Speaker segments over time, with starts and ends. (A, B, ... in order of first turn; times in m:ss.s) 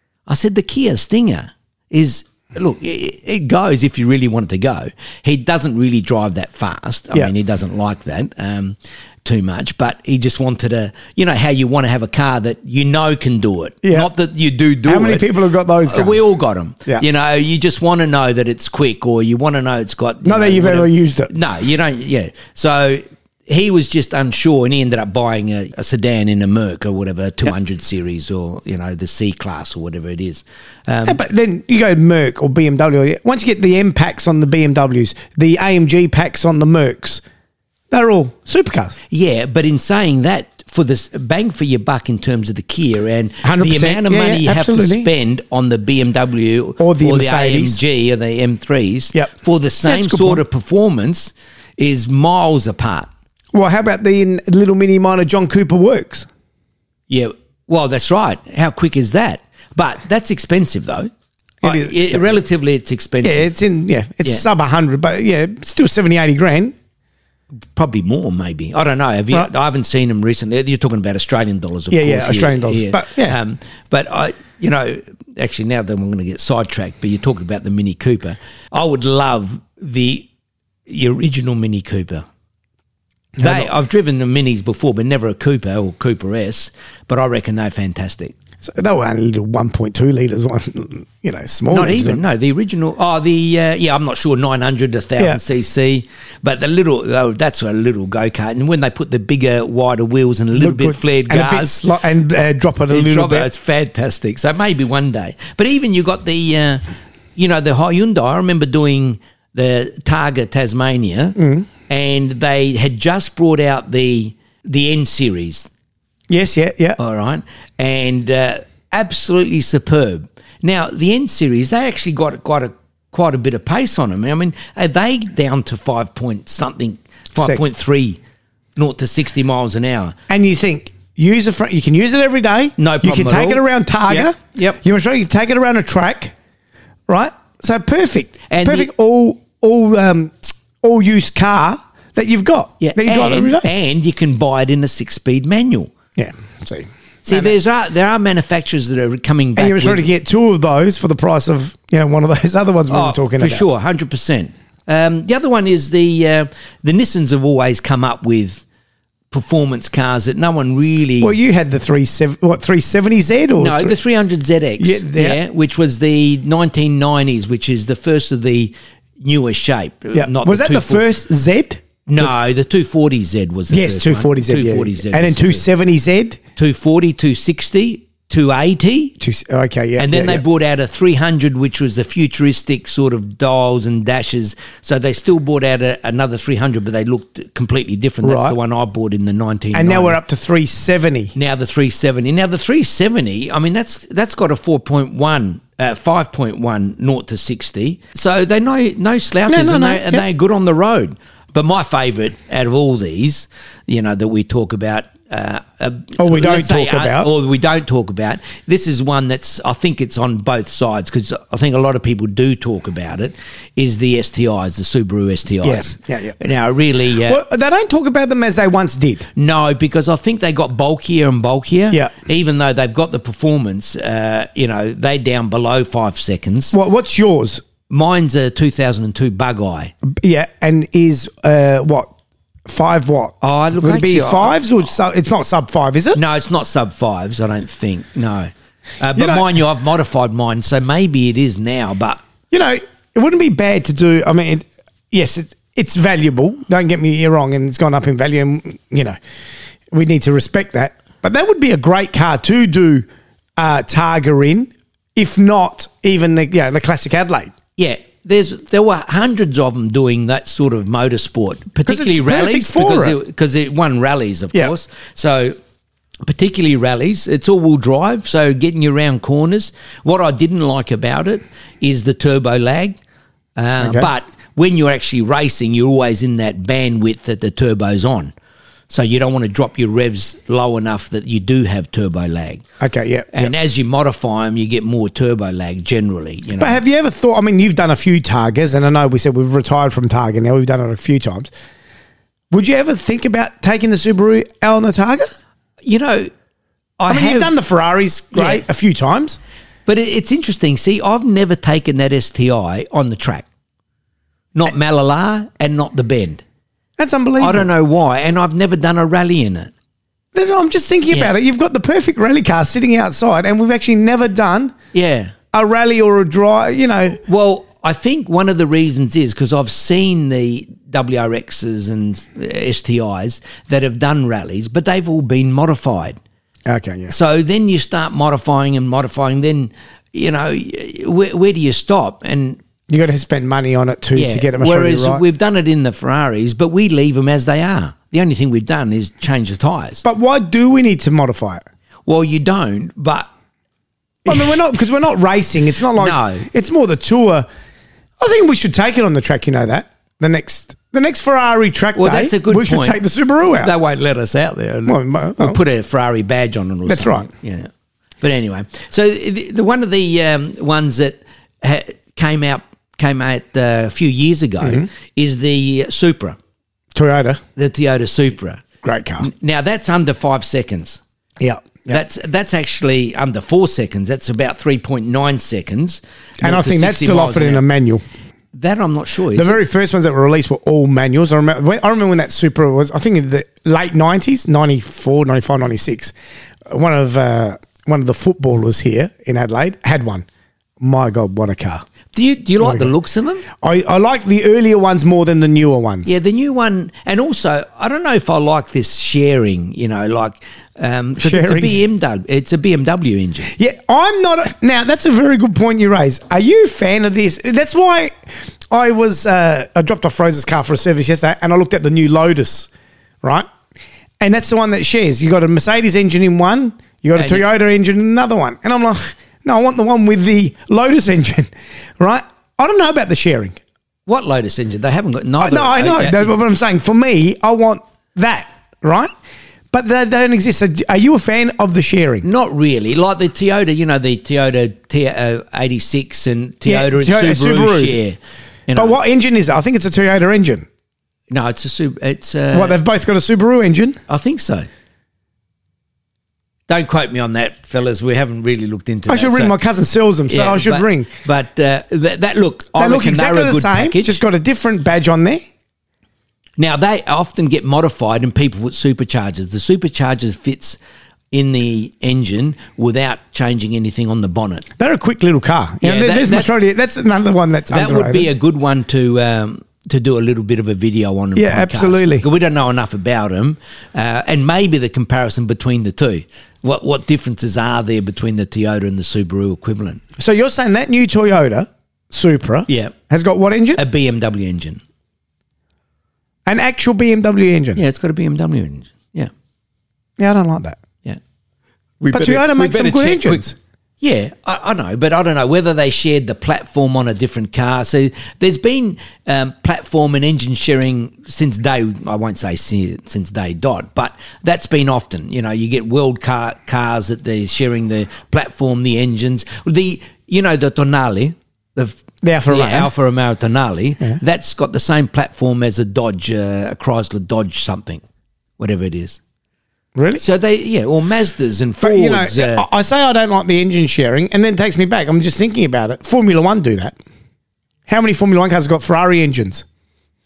0:00.3-0:15.2 A
0:13.8-0:14.1 B
0:14.9-0:16.2 B
0:15.8-0:31.2 A
0:20.2-0:21.3 B
0:31.0-0:37.2 B
0:37.9-0:38.9 B
0:39.1-0:53.1 A
0:43.4-0:45.1 B
0:46.8-0:47.8 B
0:49.8-0:50.4 B
0:53.5-0:56.3 B
0:57.1-1:01.1 A
1:01.6-1:02.4 B
1:01.6-1:03.5 A
1:03.2-1:06.7 B
1:07.7-1:20.3 A
1:11.9-1:13.4 B
1:20.9-1:22.2 A
1:23.4-1:23.7 B
1:23.4-1:28.3 A
1:28.6-1:32.2 B
1:31.7-1:41.8 A
1:40.5-1:43.5 B
1:42.9-1:46.8 A
1:47.4-1:51.4 A
1:51.4-1:51.7 B
1:51.9-1:55.7 A
1:56.3-1:57.0 B
1:57.0-2:08.2 A
2:07.4-2:07.6 B
2:08.8-2:10.1 A
2:10.3-2:16.3 B
2:12.8-2:14.8 A
2:17.1-2:23.7 B
2:18.5-2:18.9 A
2:22.8-2:25.9 A
2:26.2-2:27.6 B
2:27.2-2:30.1 A
2:29.6-2:33.6 B
2:32.9-2:38.6 A
2:39.3-2:41.3 A
2:41.2-2:44.0 B
2:43.6-2:51.0 A
2:44.8-2:45.4 B
2:50.1-2:52.3 B
2:52.0-2:55.6 A
2:53.7-2:56.4 B
2:56.6-2:59.1 A
2:59.2-3:00.4 B
3:00.0-3:10.2 A
3:08.2-3:08.6 B
3:09.7-3:11.3 B
3:11.3-3:37.4 A
3:19.5-3:20.2 B
3:26.2-3:27.3 B
3:35.6-3:36.4 B
3:37.1-3:39.2 B
3:39.4-3:46.7 A
3:46.7-3:47.6 B
3:47.9-3:49.9 A
3:50.1-3:52.1 B
3:52.6-3:56.2 B
3:53.4-3:54.6 A
3:56.1-4:02.2 A
3:59.1-3:59.6 B
4:02.5-4:09.2 B
4:09.9-4:13.0 B
4:13.6-4:17.5 B
4:17.8-4:25.6 A
4:21.8-4:23.2 B
4:26.2-4:33.0 A
4:33.6-4:38.3 A
4:33.8-4:34.0 B
4:38.9-4:42.6 A
4:42.8-4:43.5 B
4:43.3-4:46.8 A
4:46.6-4:51.5 B
4:52.5-4:55.3 B
4:55.8-4:56.3 A
4:57.0-4:57.5 A
4:57.1-4:59.4 B
4:58.3-4:58.6 A
4:59.8-5:03.4 A
5:04.5-5:06.4 A
5:07.0-5:07.7 B
5:07.4-5:09.7 A
5:10.3-5:14.7 B
5:14.9-5:15.3 A
5:15.5-5:17.2 B
5:17.2-5:26.2 A
5:26.7-5:27.1 B
5:27.1-5:32.6 A
5:32.9-5:35.2 B
5:34.1-5:40.0 A
5:40.0-5:41.6 B
5:42.1-5:43.3 A
5:44.2-5:47.5 B
5:44.3-5:44.6 A
5:46.0-5:46.5 A
5:48.2-5:53.7 B
5:51.9-5:57.7 A
5:54.8-5:55.6 B
5:56.9-5:57.3 B
5:58.2-6:06.4 A
6:04.6-6:04.9 B
6:06.9-6:07.4 B
6:07.6-6:08.6 A
6:08.8-6:09.3 B
6:09.2-6:11.0 A
6:11.4-6:12.0 B
6:11.9-6:17.6 A
6:16.4-6:18.0 B
6:18.5-6:19.6 A
6:19.3-6:26.1 B
6:26.7-6:30.2 B
6:30.8-6:31.8 B
6:32.1-6:33.4 A
6:32.6-6:32.9 B
6:33.6-6:36.1 B
6:36.0-6:43.5 A
6:41.2-6:41.8 B
6:43.5-6:48.1 B
6:48.7-6:52.7 B
6:54.2-7:03.6 B
6:57.1-6:57.4 A
7:04.1-7:06.3 A
7:05.4-7:09.1 B
7:09.7-7:12.2 B
7:12.2-7:18.2 A
7:16.6-7:18.0 B
7:18.7-7:19.0 A
7:18.8-7:20.6 B
7:21.3-7:22.8 A
7:22.5-7:24.0 B
7:24.1-7:24.7 A
7:26.7-7:29.6 A
7:29.1-7:31.1 B
7:30.3-7:34.2 A
7:32.8-7:35.4 B
7:36.6-7:40.8 A
7:41.3-7:44.7 A
7:44.8-7:48.3 B
7:45.8-7:46.5 A
7:47.7-8:00.0 A
7:51.4-7:52.2 B
8:00.2-8:03.8 B
8:02.7-8:02.9 A
8:03.8-8:04.8 A
8:06.4-8:07.8 B
8:07.8-8:09.3 A
8:10.2-8:10.8 B
8:12.0-8:13.5 A
8:12.1-8:13.5 B
8:14.0-8:38.0 A
8:32.2-8:32.9 B
8:38.6-8:39.2 A
8:40.0-8:40.2 B
8:40.1-8:42.6 A
8:41.8-8:47.0 B
8:47.9-8:49.6 B